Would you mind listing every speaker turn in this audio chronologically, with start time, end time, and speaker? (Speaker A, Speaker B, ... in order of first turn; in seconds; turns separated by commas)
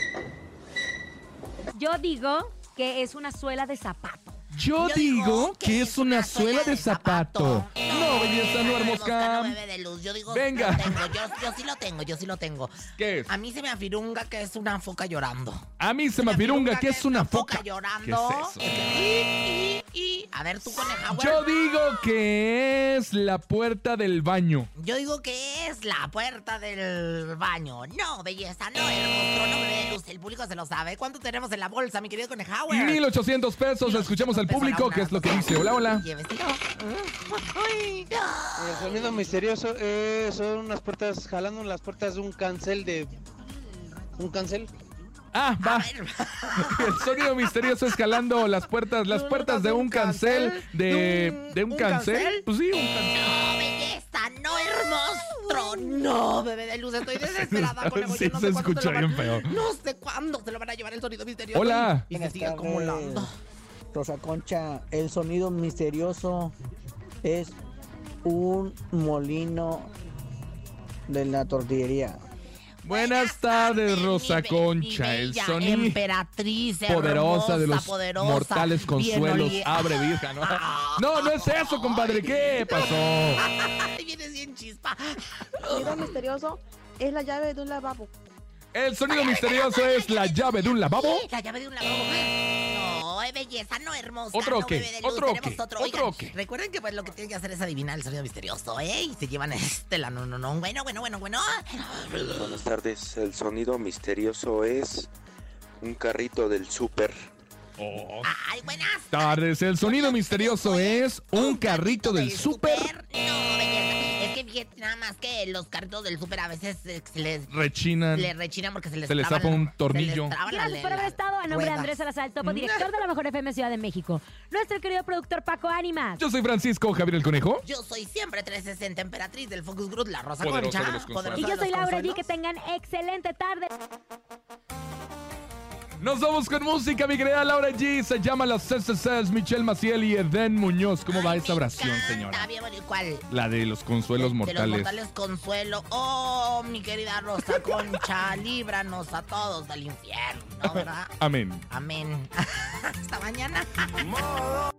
Speaker A: 1.8-4.4, Speaker B: 4.5-9.6, Speaker C: 4.8-21.4, Speaker B: 10.3-10.9, Speaker B: 13.0-13.3, Speaker B: 15.8-19.0, Speaker B: 21.1-24.7, Speaker C: 24.8-33.0, Speaker B: 32.7-36.0, Speaker C: 33.8-39.1, Speaker D: 38.6-43.2, Speaker C: 43.6-44.1, Speaker D: 44.2-44.7, Speaker B: 45.3-45.9, Speaker C: 45.6-48.5, Speaker B: 46.5-53.3, Speaker C: 49.0-52.5, Speaker C: 53.1-63.4, Speaker B: 57.2-59.5, Speaker B: 61.5-62.1, Speaker E: 62.1-63.3, Speaker E: 63.9-66.5, Speaker E: 67.2-67.6, Speaker E: 68.2-69.9, Speaker E: 71.1-72.2, Speaker C: 72.9-86.1, Speaker B: 72.9-76.0, Speaker B: 76.9-83.4, Speaker F: 85.7-88.1, Speaker B: 88.7-91.2, Speaker C: 89.1-102.6, Speaker B: 94.3-96.3, Speaker G: 102.4-105.1, Speaker G: 105.8-107.3, Speaker B: 107.8-108.3, Speaker C: 108.2-117.5, Speaker B: 109.1-112.9, Speaker B: 117.5-118.3, Speaker C: 118.1-122.9, Speaker B: 119.1-120.3, Speaker A: 120.5-126.2, Speaker B: 126.2-127.6, Speaker C: 127.6-132.2, Speaker B: 130.4-131.5, Speaker A: 131.4-133.7, Speaker B: 136.0-142.5, Speaker C: 141.1-143.3, Speaker B: 143.3-144.9, Speaker C: 144.2-151.2, Speaker B: 150.6-151.6, Speaker C: 151.7-154.1